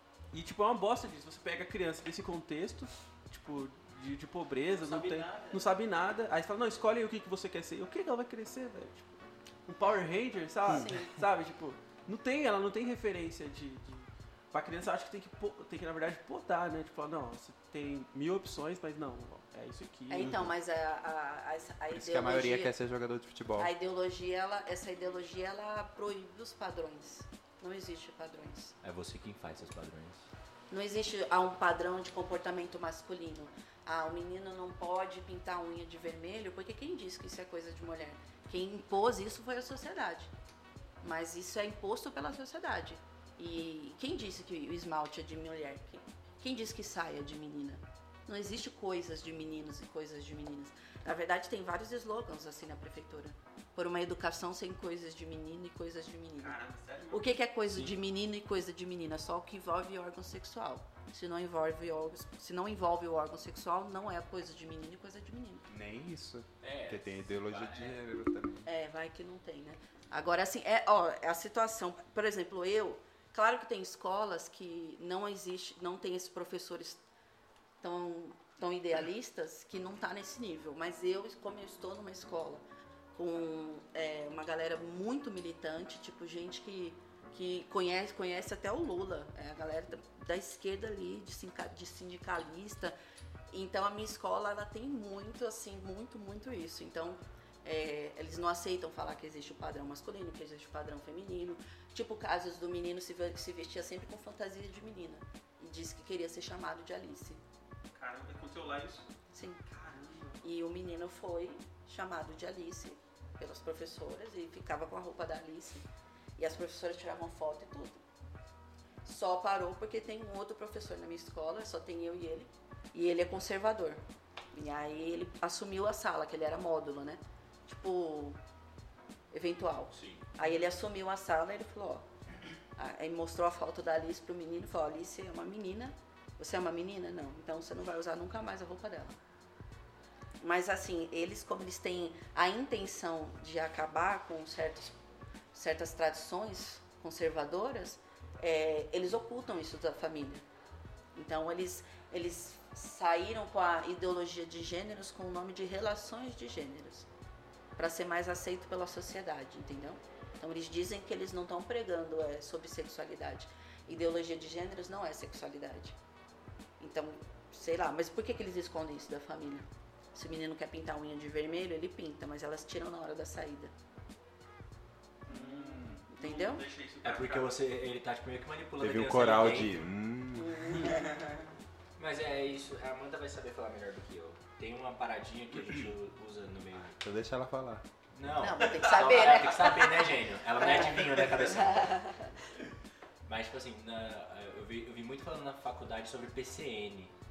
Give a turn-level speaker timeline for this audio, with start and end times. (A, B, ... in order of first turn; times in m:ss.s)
0:00.3-0:20.4 A
0:04.7-0:05.7 B
0:10.7-0:11.2 C
0:20.1-0:22.7 C
0:21.9-0:23.7 D
0:23.6-0:28.7 C
0:28.8-0:30.2 B
0:30.7-0:40.3 C
0:41.0-0:56.6 C
0:56.4-0:57.9 A
0:57.1-1:05.7 C
1:05.7-1:08.7 D
1:06.6-1:08.0 B
1:08.6-1:17.0 C
1:17.8-1:22.6 C
1:23.2-1:33.0 C
1:33.5-1:47.4 C
1:47.9-1:49.1 A
1:49.3-1:49.6 C
1:49.7-1:50.5 A
1:50.4-1:55.8 C
1:56.4-1:58.0 C
1:59.0-2:04.0 C
2:04.5-2:08.4 C
2:09.3-2:12.1 C
2:09.9-2:10.2 B
2:12.8-2:19.2 C
2:20.4-2:25.0 C
2:25.5-2:30.4 C
2:31.2-2:37.1 C
2:37.8-2:46.0 C
2:46.8-2:53.7 C
2:55.3-2:57.6 A
2:56.1-2:56.6 C
2:57.0-2:59.8 B
2:58.8-3:01.2 D
3:00.4-3:01.1 C
3:02.0-3:07.0 B
3:07.0-3:07.8 D
3:08.2-3:12.0 B
3:08.4-3:12.3 C
3:13.3-3:17.1 B